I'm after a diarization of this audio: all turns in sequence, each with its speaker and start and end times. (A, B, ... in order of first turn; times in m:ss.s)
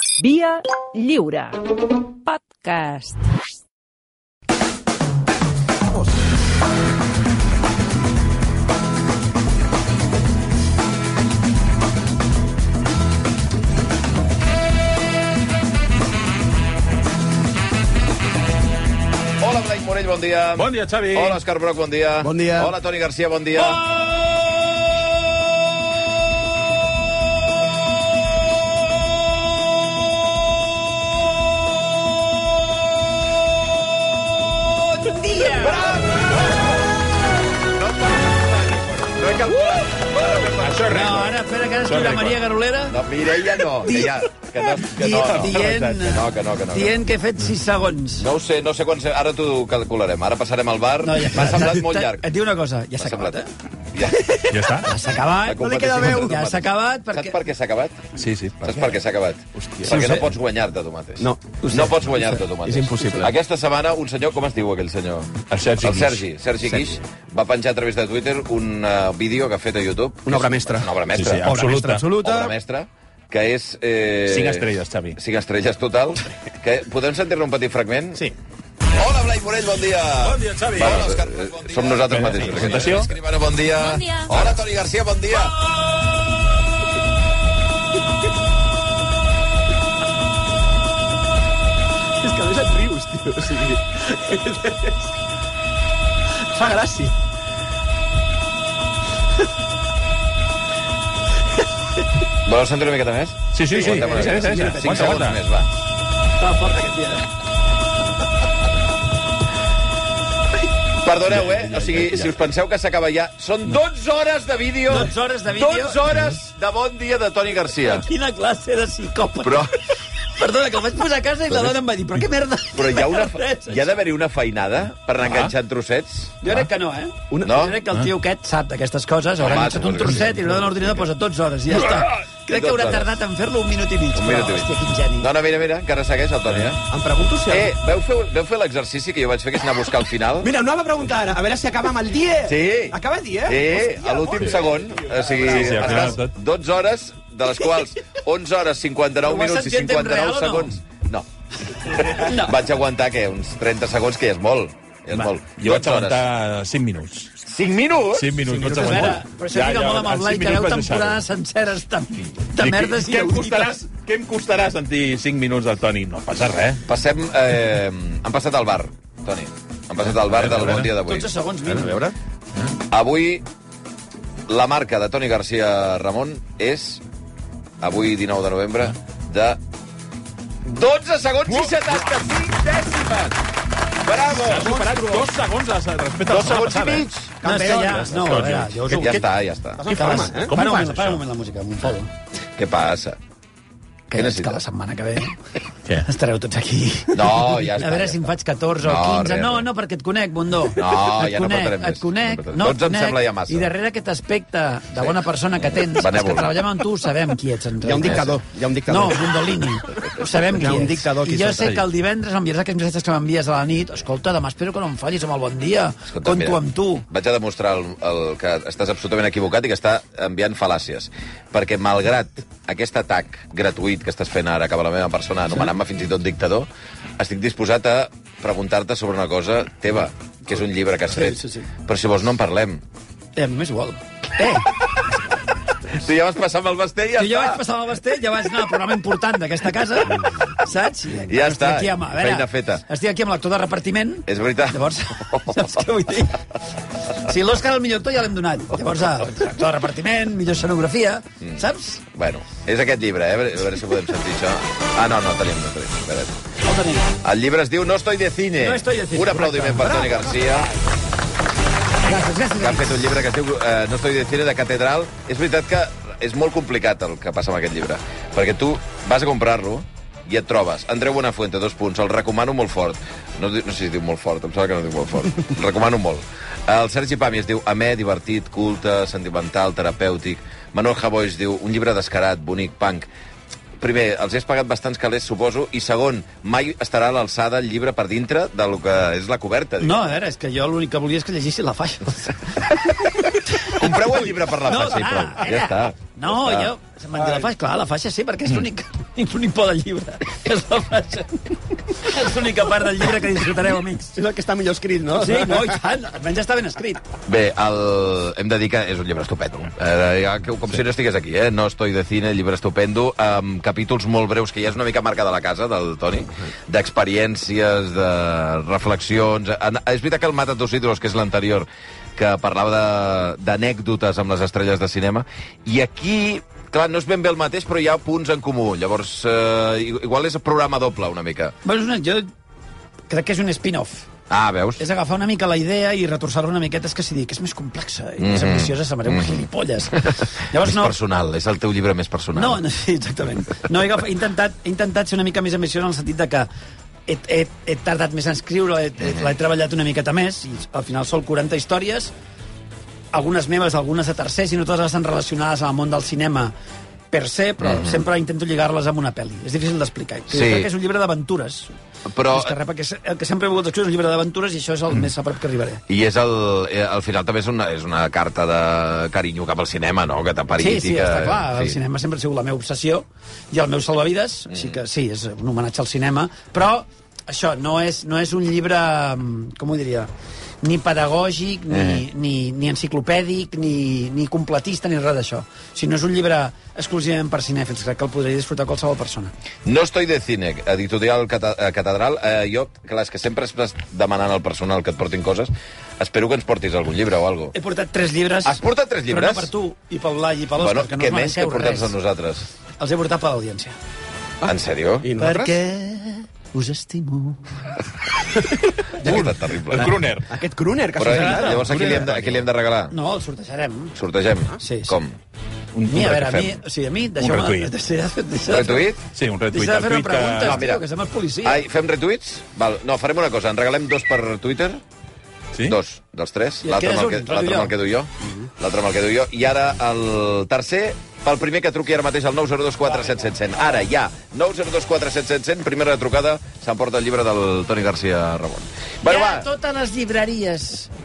0:00.2-0:01.6 A
0:02.2-0:03.2 A
0:19.4-0:23.8 B
0:20.6-0:21.4 C
0:22.2-0:22.7 D
0:35.0-0:36.0 E
0:35.6-0:36.4 B
0:37.8-0:41.2 B
0:40.4-0:42.4 C
0:40.9-0:43.0 E
0:42.9-0:47.0 B
0:43.8-0:44.2 E
0:44.8-0:48.3 E
0:45.2-0:46.1 C
0:48.2-0:52.2 B
0:51.0-0:53.5 E
0:53.0-0:53.4 B
0:53.9-0:54.4 B
0:54.0-0:57.4 E
0:54.5-0:54.9 C
0:55.4-0:58.1 B
0:55.6-0:56.4 D
0:58.2-0:58.7 C
0:58.6-1:18.2 B
0:59.6-1:00.2 D
0:59.9-1:00.3 E
1:01.2-1:01.8 D
1:01.6-1:02.4 E
1:02.6-1:03.3 D
1:05.5-1:07.0 C
1:10.3-1:10.9 D
1:11.1-1:12.2 C
1:11.4-1:12.5 D
1:14.3-1:15.2 C
1:18.9-1:25.5 B
1:20.2-1:23.1 C
1:32.2-1:35.0 D
1:36.5-1:37.1 D
1:42.4-1:45.7 B
1:43.5-1:45.4 C
1:43.7-1:45.3 D
1:46.4-1:47.3 E
1:51.0-1:58.0 B
1:51.3-1:52.4 C
1:54.9-1:56.0 E
1:57.9-1:59.7 E
1:59.4-1:59.7 B
2:00.3-2:03.9 E
2:02.8-2:06.4 B
2:05.2-2:05.5 C
2:06.4-2:15.3 E
2:07.4-2:07.8 B
2:09.4-2:10.9 B
2:12.5-2:13.2 B
2:14.2-2:16.8 B
2:16.9-2:17.8 D
2:17.5-2:20.5 B
2:20.4-2:26.2 D
2:22.5-2:31.3 B
2:24.4-2:24.6 C
2:25.5-2:26.3 C
2:29.2-2:30.8 E
2:31.8-2:36.2 B
2:32.0-2:32.6 E
2:35.2-2:37.3 C
2:37.4-2:38.4 B
2:38.1-2:41.2 C
2:38.4-2:39.1 D
2:38.6-2:43.7 E
2:42.6-2:46.8 C
2:46.9-2:51.3 B
2:50.0-2:50.9 C
2:51.0-2:52.0 E
2:51.7-2:52.0 C
2:52.9-2:53.4 B
2:54.5-2:57.0 B
2:57.8-2:59.6 B
3:00.6-3:03.3 B
3:01.5-3:02.1 C
3:04.0-3:05.3 B
3:04.3-3:09.2 C
3:06.3-3:07.3 B
3:07.4-3:08.6 D
3:07.4-3:09.2 E
3:08.9-3:09.8 B
3:09.8-3:10.5 D
3:09.9-3:11.2 C
3:09.9-3:12.1 E
3:12.6-3:13.2 B
3:14.1-3:15.4 E
3:14.2-3:14.6 B
3:16.0-3:28.3 E
3:17.1-3:18.2 B
3:18.8-3:19.7 B
3:20.8-3:23.7 B
3:25.0-3:26.6 B
3:27.8-3:29.3 D
3:28.0-3:28.4 B
3:28.9-3:37.0 E
3:30.5-3:31.8 D
3:36.1-3:46.7 B
3:47.2-3:52.8 B
3:51.1-3:51.7 E
3:53.4-3:54.7 E
3:55.9-3:57.6 B
3:57.2-4:06.4 E
4:01.3-4:02.8 B
4:04.3-4:05.6 B
4:07.2-4:12.0 E
4:12.1-4:16.3 B
4:16.6-4:17.1 E
4:17.2-4:20.7 B
4:18.6-4:20.1 E
4:22.0-4:23.0 E
4:22.6-4:43.1 B
4:43.8-4:50.0 B
4:49.8-4:52.6 E
4:53.7-4:56.7 B
4:54.7-5:04.2 E
5:04.2-5:05.8 D
5:05.2-5:07.0 E
5:07.3-5:31.6 B
5:31.6-5:32.3 E
5:33.1-5:34.1 E
5:34.3-5:34.8 B
5:34.8-5:41.0 E
5:38.2-5:42.6 B
5:42.4-5:46.5 E
5:47.1-5:52.1 E
5:53.1-5:56.5 E
5:57.1-6:01.7 E
5:57.6-5:58.0 B
6:00.3-6:00.7 B
6:02.1-6:02.6 B
6:02.3-6:05.8 E
6:05.9-6:11.8 B
6:10.6-6:20.1 E
6:20.6-6:29.3 E
6:21.7-6:22.0 B
6:29.6-6:37.6 B
6:37.5-6:41.9 E
6:38.5-6:39.5 B
6:40.6-6:42.5 B
6:42.8-6:43.8 E
6:44.4-6:45.6 D
6:44.5-6:45.1 B
6:45.2-6:47.5 E
6:49.0-6:50.0 B
6:49.0-6:52.0 D
6:49.7-6:50.3 C
6:51.0-6:53.0 B
6:51.1-6:52.0 E
6:51.7-6:52.4 C
6:52.9-6:54.0 E
6:54.0-6:55.1 B
6:54.6-6:55.0 E
6:55.8-6:56.4 C
6:55.9-6:58.9 E
6:56.1-6:56.4 B
6:57.2-6:57.7 C
6:58.5-6:59.0 B
6:59.1-7:00.7 C
6:59.5-7:01.6 E
7:00.4-7:00.8 B
7:01.4-7:04.8 B
7:05.7-7:19.5 B
7:06.6-7:07.7 E
7:19.0-7:20.9 E